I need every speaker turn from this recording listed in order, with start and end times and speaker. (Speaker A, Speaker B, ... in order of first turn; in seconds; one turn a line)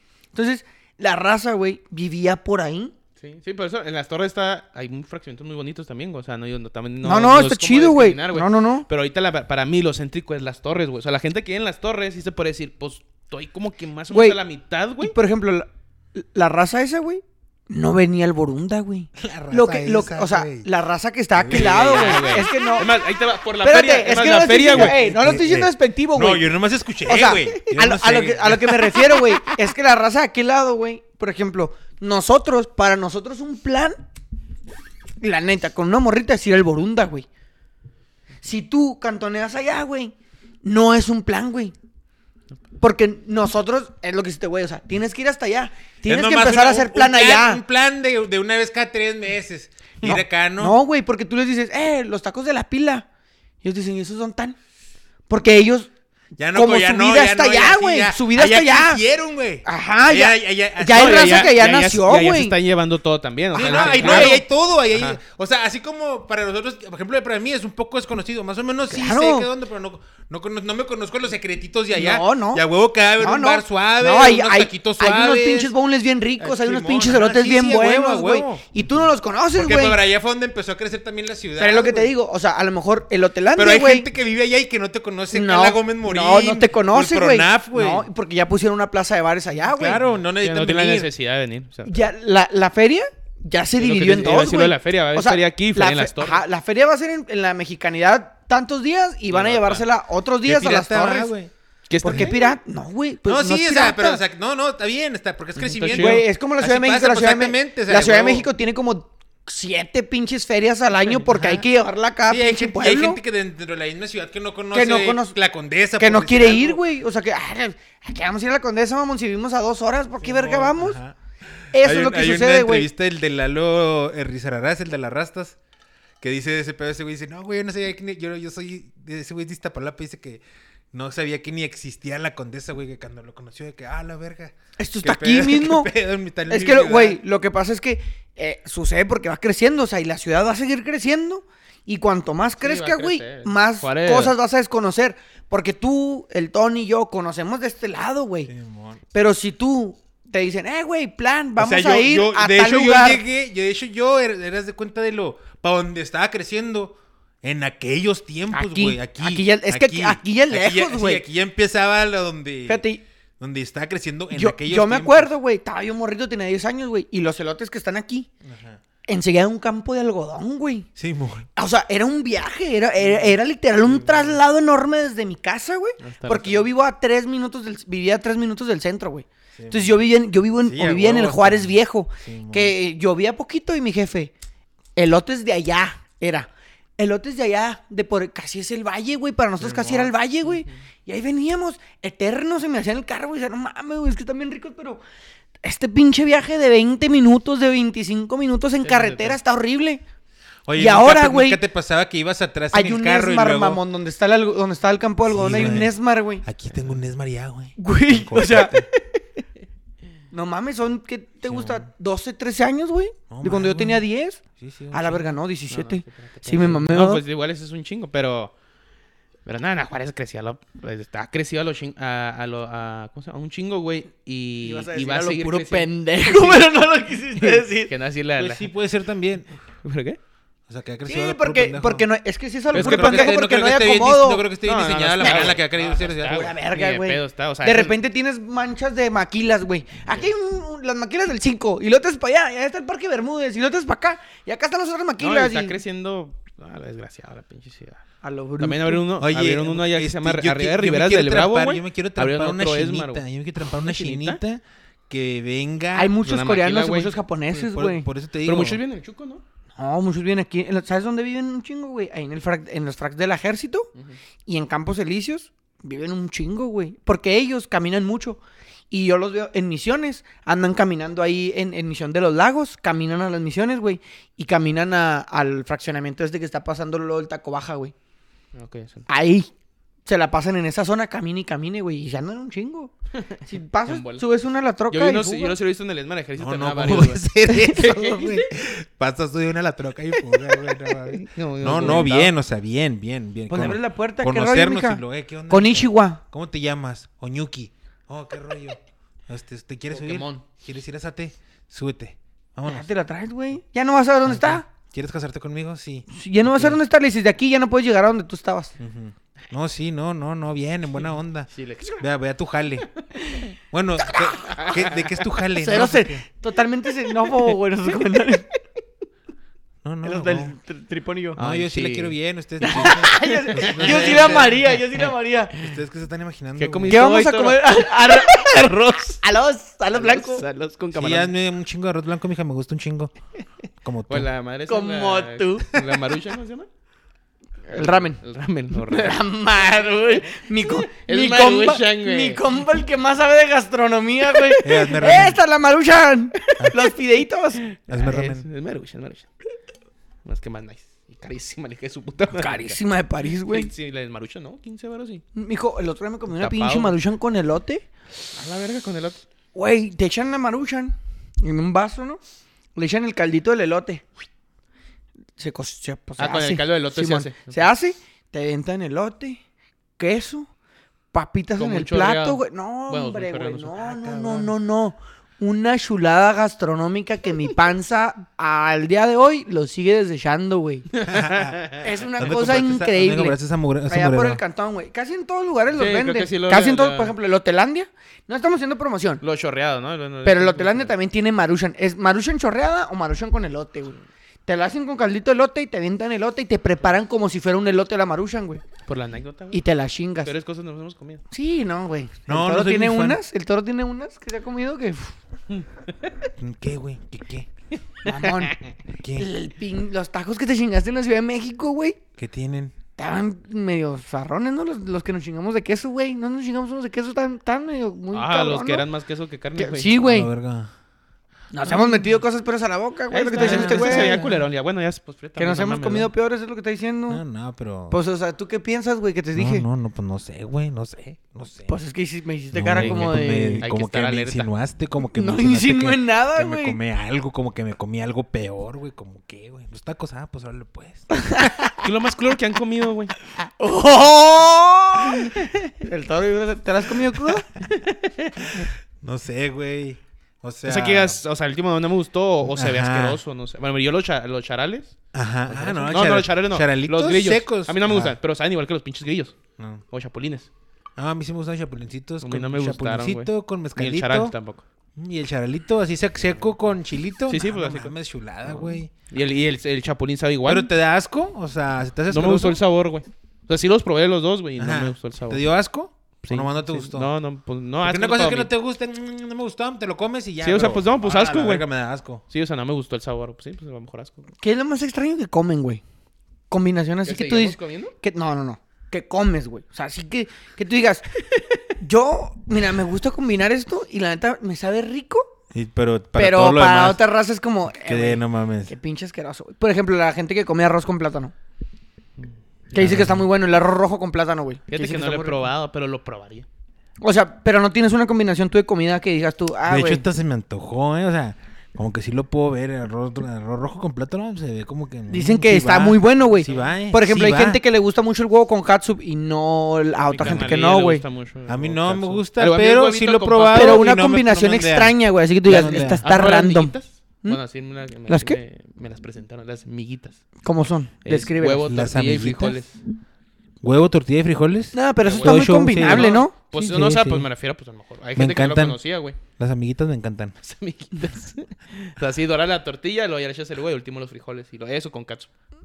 Speaker A: 0.3-2.9
Speaker B: 3.2-15.2
Speaker A: 7.0-8.9
Speaker A: 14.1-14.4
Speaker A: 15.0-22.9
Speaker C: 19.2-20.7
Speaker C: 21.4-22.6
Speaker B: 21.5-25.1
Speaker A: 23.6-26.5
Speaker C: 24.7-29.4
Speaker A: 27.1-34.0
Speaker A: 35.2-37.3
Speaker A: 38.4-41.7
Speaker A: 42.8-47.6
Speaker C: 46.1-50.8
Speaker A: 50.0-53.0
Speaker A: 53.6-54.6
Speaker A: 55.3-55.9
Speaker C: 56.4-61.5
Speaker A: 56.5-59.0
Speaker A: 59.6-62.5
Speaker B: 60.9-64.4
Speaker C: 63.5-75.7
Speaker A: 63.6-64.4
Speaker B: 64.9-65.2
Speaker A: 68.9-69.5
Speaker A: 71.9-72.6
Speaker A: 73.2-80.0
Speaker C: 76.4-78.7
Speaker C: 79.5-82.1
Speaker A: 81.6-84.1
Speaker C: 83.6-88.1
Speaker A: 85.3-90.0
Speaker C: 89.7-91.1
Speaker B: 90.3-92.0
Speaker A: 91.9-101.3
Speaker B: 93.8-96.4
Speaker B: 99.3-99.9
Speaker C: 100.5-101.5
Speaker B: 101.9-102.5
Speaker C: 102.0-102.4
Speaker A: 102.0-104.2
Speaker C: 103.3-108.5
Speaker B: 105.6-106.2
Speaker A: 105.9-113.2
Speaker C: 111.3-111.7
Speaker C: 112.3-116.8
Speaker A: 114.7-115.4
Speaker A: 116.0-121.0
Speaker C: 120.2-121.2
Speaker C: 121.7-125.6
Speaker A: 121.7-122.9
Speaker C: 126.2-137.2
Speaker A: 134.8-135.9
Speaker A: 136.5-148.5
Speaker B: 142.6-144.3
Speaker C: 148.5-149.0
Speaker A: 149.1-153.2
Speaker C: 151.6-162.8
Speaker A: 158.5-161.2
Speaker A: 162.7-163.0
Speaker C: 163.4-165.3
Speaker A: 164.3-168.3
Speaker C: 168.4-168.8
Speaker A: 169.1-170.9
Speaker C: 171.0-171.5
Speaker A: 171.6-184.3
Speaker B: 176.0-176.7
Speaker C: 179.6-180.0
Speaker C: 180.7-182.8
Speaker A: 185.0-195.0
Speaker C: 189.6-190.1
Speaker B: 190.4-190.8
Speaker A: 195.6-200.0
Speaker B: 198.8-199.4
Speaker C: 200.7-203.8
Speaker A: 200.8-201.6
Speaker A: 202.7-206.4
Speaker C: 205.3-208.9
Speaker B: 206.7-207.0
Speaker A: 207.8-209.1
Speaker A: 210.3-217.2
Speaker C: 211.5-211.9
Speaker C: 213.3-214.1
Speaker C: 214.6-215.3
Speaker B: 215.7-218.5
Speaker B: 219.5-228.7
Speaker A: 224.6-227.9
Speaker C: 228.4-229.5
Speaker B: 229.8-230.2
Speaker C: 230.7-232.1
Speaker A: 231.1-234.4
Speaker C: 232.7-236.5
Speaker B: 232.7-233.4
Speaker B: 234.6-238.0
Speaker A: 235.2-235.6
Speaker A: 236.2-245.8
Speaker B: 245.2-248.0
Speaker A: 248.2-249.0
Speaker B: 248.6-254.4
Speaker C: 249.2-256.2
Speaker A: 255.9-258.1
Speaker B: 256.2-257.2
Speaker C: 257.5-258.8
Speaker B: 258.4-259.4
Speaker A: 259.8-263.9
Speaker A: 264.5-268.4
Speaker A: 268.9-277.9
Speaker B: 278.6-279.1
Speaker A: 279.1-279.5
Speaker A: 280.1-282.9
Speaker B: 283.2-284.2
Speaker A: 283.4-285.6
Speaker B: 284.9-288.4
Speaker C: 286.4-302.9
Speaker A: 287.5-288.3
Speaker B: 291.1-292.3
Speaker A: 293.5-296.2
Speaker B: 299.9-300.4
Speaker A: 302.7-304.6
Speaker C: 304.3-306.1
Speaker A: 306.1-308.7
Speaker C: 308.8-312.9
Speaker B: 311.5-312.0
Speaker C: 313.7-316.2
Speaker A: 314.1-314.8
Speaker B: 314.5-315.0
Speaker A: 315.4-318.5
Speaker C: 319.8-320.6
Speaker A: 320.0-321.4
Speaker C: 321.4-324.7
Speaker B: 321.4-325.0
Speaker A: 322.6-325.6
Speaker C: 325.6-327.2
Speaker B: 326.6-328.3
Speaker A: 326.9-330.4
Speaker B: 329.9-331.3
Speaker C: 330.9-333.1
Speaker C: 333.8-334.3
Speaker B: 334.1-336.7
Speaker A: 334.7-335.7
Speaker A: 337.7-338.2
Speaker B: 337.7-339.2
Speaker A: 338.7-347.6
Speaker B: 340.6-342.4
Speaker C: 344.6-345.4
Speaker B: 347.7-349.3
Speaker C: 347.9-348.4
Speaker B: 350.2-352.8
Speaker A: 352.3-353.7
Speaker B: 353.5-355.2
Speaker A: 355.4-357.9
Speaker B: 356.4-357.0
Speaker B: 358.3-359.2
Speaker A: 359.5-362.2
Speaker A: 362.8-364.0
Speaker A: 365.4-369.4
Speaker B: 366.2-367.6
Speaker A: 370.0-370.5
Speaker A: 371.1-380.9
Speaker B: 371.6-374.5
Speaker B: 380.9-381.9
Speaker C: 381.1-384.4
Speaker A: 381.7-389.2
Speaker B: 385.8-387.1
Speaker B: 389.2-390.9
Speaker A: 390.2-398.6
Speaker B: 398.9-399.6
Speaker A: 399.5-400.3
Speaker B: 400.2-401.2
Speaker A: 401.3-405.1
Speaker C: 402.3-403.2
Speaker B: 405.5-406.1
Speaker C: 406.4-407.5
Speaker A: 408.1-408.6
Speaker B: 408.1-408.7
Speaker C: 409.0-409.3
Speaker A: 409.1-412.0
Speaker C: 412.2-412.8
Speaker A: 413.0-418.9
Speaker B: 418.1-420.0
Speaker A: 419.6-420.3
Speaker C: 420.0-420.7
Speaker A: 421.5-424.4
Speaker B: 423.1-426.1
Speaker C: 423.4-424.2
Speaker A: 425.4-427.2
Speaker C: 427.1-428.0
Speaker A: 427.9-429.7
Speaker C: 429.4-431.8
Speaker A: 431.7-433.7
Speaker C: 432.5-441.7
Speaker B: 432.7-434.5
Speaker A: 435.1-436.8
Speaker A: 441.1-441.8
Speaker B: 441.8-443.1
Speaker A: 443.4-447.5
Speaker C: 448.4-451.2
Speaker B: 450.6-455.0
Speaker C: 452.5-453.2
Speaker C: 455.1-458.1
Speaker B: 455.5-459.4
Speaker C: 459.6-459.8
Speaker B: 459.9-460.5
Speaker C: 461.0-464.4
Speaker B: 462.2-464.6
Speaker C: 465.0-468.9
Speaker B: 467.3-467.9
Speaker B: 468.4-470.7
Speaker C: 470.5-472.6
Speaker B: 472.1-475.5
Speaker C: 474.6-477.1
Speaker B: 476.2-478.5
Speaker C: 477.8-482.2
Speaker B: 480.4-481.6
Speaker B: 482.3-484.2
Speaker A: 484.4-485.8
Speaker A: 486.5-495.3
Speaker B: 487.1-487.9
Speaker C: 495.5-497.0
Speaker A: 496.2-501.3
Speaker C: 497.7-498.7
Speaker A: 502.7-505.5
Speaker C: 502.8-503.3
Speaker B: 504.7-506.5
Speaker A: 507.0-510.0
Speaker C: 509.7-517.6
Speaker A: 515.1-521.0
Speaker B: 516.4-516.7
Speaker B: 520.0-523.9
Speaker C: 521.5-526.0
Speaker A: 523.5-527.4
Speaker B: 525.5-530.2
Speaker A: 528.1-528.4
Speaker A: 530.4-531.8
Speaker B: 531.0-532.8
Speaker C: 531.7-532.6
Speaker C: 533.6-537.3
Speaker A: 534.7-536.3
Speaker B: 535.0-539.2
Speaker C: 538.1-538.8
Speaker C: 539.3-540.4
Speaker B: 540.4-545.3